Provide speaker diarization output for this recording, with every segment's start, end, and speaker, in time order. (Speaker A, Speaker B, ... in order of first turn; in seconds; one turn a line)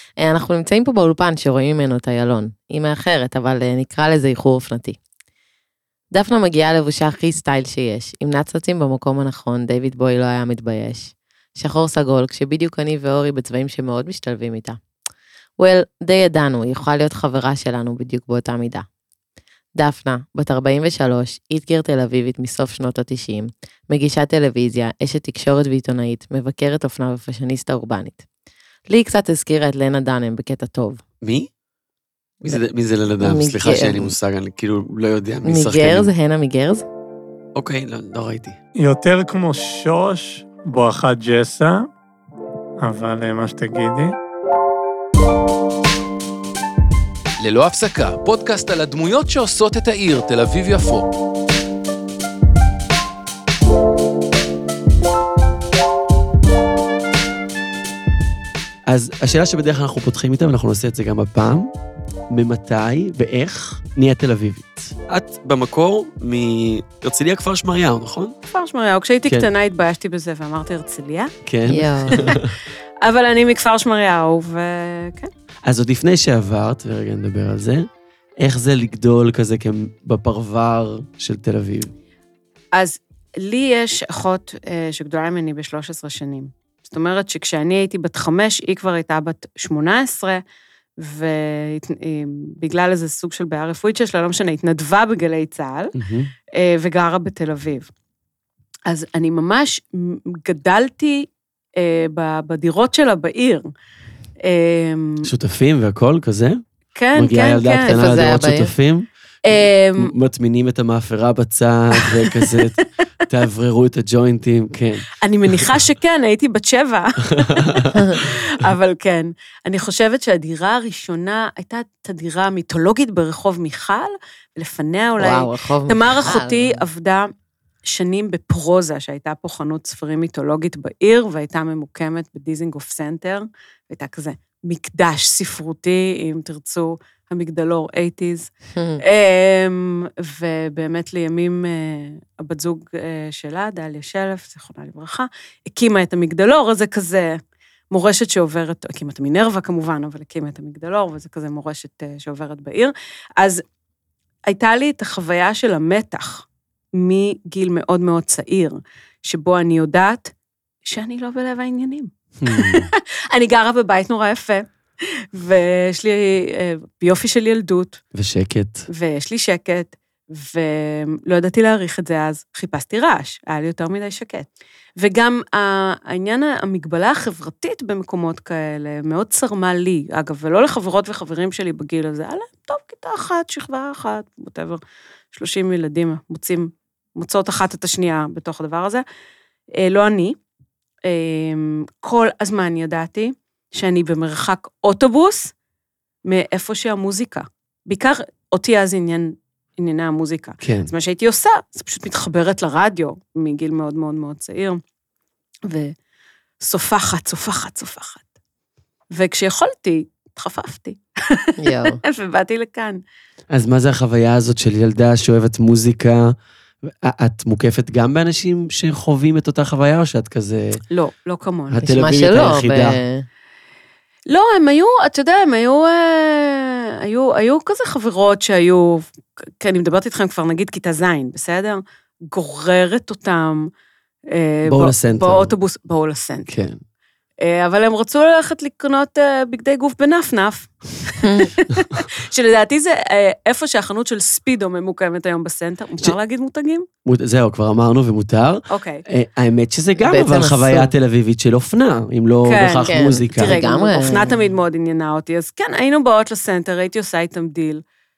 Speaker A: 0.2-5.0
Speaker A: 6.1-14.8
Speaker A: 15.6-18.9
Speaker A: 19.8-28.2
Speaker A: 28.9-31.0
Speaker B: 31.2-31.5
Speaker B: 32.4-36.1
Speaker A: 33.2-34.1
Speaker A: 35.5-36.9
Speaker B: 37.5-38.6
Speaker C: 38.8-41.9
Speaker C: 42.8-44.1
Speaker D: 47.4-51.1
Speaker B: 58.9-61.7
Speaker B: 62.3-68.3
Speaker E: 68.5-71.3
Speaker B: 71.5-72.5
Speaker A: 71.7-72.3
Speaker E: 72.1-72.4
Speaker E: 73.0-75.3
Speaker B: 75.7-77.9
Speaker B: 78.4-81.9
Speaker E: 82.7-90.4
Speaker E: 91.0-96.0
Speaker B: 96.0-96.3
Speaker E: 96.5-97.9
Speaker E: 98.9-103.7
Speaker E: 104.4-105.3
Speaker B: 105.2-106.6
Speaker E: 107.0-108.2
Speaker B: 107.1-109.1
Speaker A: 107.8-108.7
Speaker E: 109.4-110.1
Speaker B: 110.0-115.8
Speaker E: 112.0-112.7
Speaker E: 115.2-127.3
Speaker B: 117.3-118.2
Speaker A: 125.2-126.8
Speaker E: 127.8-147.4
Speaker A: 138.8-139.0
Speaker E: 147.9-153.6
Speaker E: 154.5-160.3
Speaker E: 160.8-168.0
Speaker B: 162.4-162.9
Speaker B: 168.1-168.9
Speaker E: 168.9-184.8
Speaker E: 185.3-189.0
Speaker E: 189.8-190.4
Speaker E: 191.1-195.5
Speaker E: 196.3-204.8
Speaker B: 200.6-200.9
Speaker E: 205.7-205.9
Speaker E: 206.6-208.3
Speaker E: 209.1-213.0
Speaker A: 211.6-212.0
Speaker B: 213.5-216.3
Speaker B: 216.8-220.8
Speaker E: 220.9-221.9
Speaker B: 221.7-223.0
Speaker A: 221.8-223.3
Speaker E: 224.3-229.1
Speaker E: 229.6-233.7
Speaker E: 234.3-236.6
Speaker B: 234.7-235.5
Speaker B: 236.5-236.8
Speaker E: 237.4-246.9
Speaker A: 241.2-241.5
Speaker B: 247.1-253.6
Speaker E: 248.7-249.0
Speaker A: 250.0-250.9
Speaker E: 252.4-257.8
Speaker A: 252.9-254.4